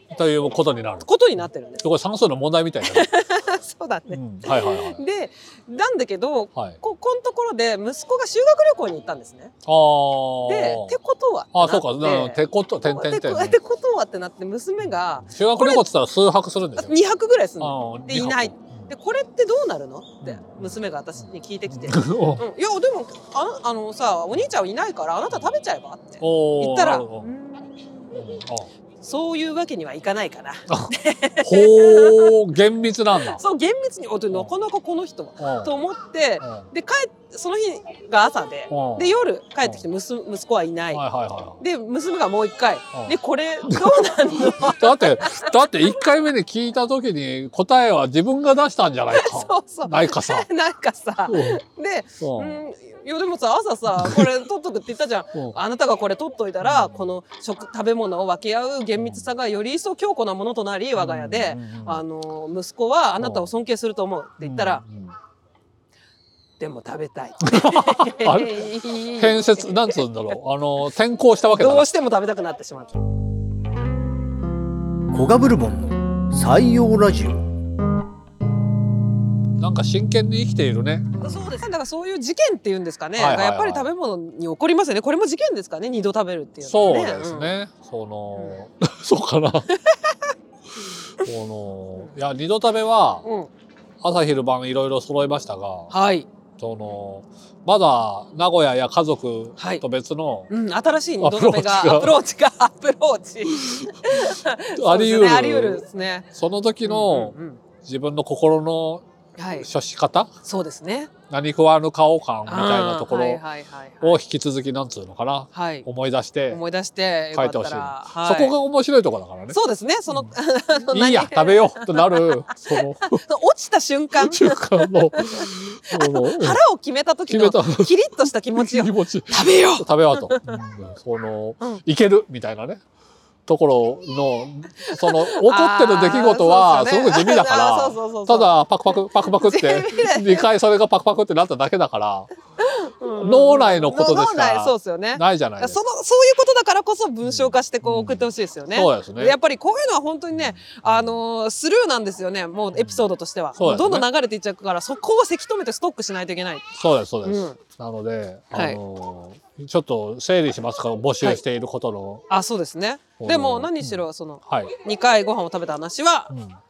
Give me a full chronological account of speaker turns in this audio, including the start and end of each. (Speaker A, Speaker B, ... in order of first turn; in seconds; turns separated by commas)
Speaker A: 0.1-3.1, Speaker B: 1.0-1.8, Speaker B: 2.9-9.5, Speaker A: 4.1-5.0, Speaker A: 9.6-11.0, Speaker B: 10.4-15.8, Speaker A: 11.5-13.6, Speaker A: 14.8-17.0, Speaker B: 16.8-28.3, Speaker A: 17.6-18.9, Speaker A: 20.2-22.4, Speaker A: 25.3-25.6, Speaker A: 26.2-27.3, Speaker A: 28.1-28.7, Speaker B: 29.0-32.3, Speaker A: 31.4-33.4, Speaker B: 33.2-41.0, Speaker A: 35.4-35.7, Speaker A: 38.7-39.1, Speaker A: 40.9-41.6, Speaker B: 41.6-45.7, Speaker A: 43.6-50.5, Speaker B: 49.1-64.8, Speaker A: 51.3-51.6, Speaker A: 52.2-52.5, Speaker A: 54.0-54.3, Speaker A: 56.6-57.1, Speaker A: 59.0-59.3, Speaker A: 61.0-62.0, Speaker A: 63.2-63.5, Speaker A: 64.4-65.1, Speaker B: 66.6-70.0, Speaker A: 67.4-68.6, Speaker A: 69.2-71.9, Speaker B: 71.5-73.0, Speaker C: 75.1-77.4, Speaker A: 79.6-81.1, Speaker B: 81.2-87.5, Speaker A: 83.2-83.9, Speaker A: 86.6-89.7, Speaker B: 89.8-90.2, Speaker A: 91.2-93.2, Speaker B: 93.2-93.5, Speaker A: 94.0-95.9, Speaker B: 95.9-96.3, Speaker A: 96.6-100.5, Speaker B: 99.6-99.8, Speaker B: 100.5-106.3, Speaker A: 101.2-102.2, Speaker A: 103.5-109.0, Speaker B: 106.8-107.6, Speaker B: 109.4-109.7, Speaker A: 109.5-110.3, Speaker B: 110.4-111.1, Speaker A: 111.3-113.4, Speaker B: 112.5-114.2, Speaker A: 114.0-116.6, Speaker B: 115.5-115.8, Speaker B: 116.5-118.5, Speaker A: 117.3-119.6, Speaker B: 119.5-130.6, Speaker A: 120.1-120.3, Speaker A: 120.9-123.2, Speaker A: 124.2-126.6, Speaker A: 127.3-128.0, Speaker A: 128.5-132.8, Speaker A: 133.4-142.3, Speaker B: 134.8-138.6, Speaker B: 139.4-140.5, Speaker B: 142.6-157.6, Speaker A: 143.2-145.8, Speaker A: 147.3-149.3, Speaker A: 150.3-151.2, Speaker A: 152.7-153.0, Speaker A: 153.6-154.1, Speaker A: 156.8-162.2, Speaker B: 158.5-158.8, Speaker B: 162.3-166.3, Speaker A: 163.2-164.7, Speaker A: 166.3-166.6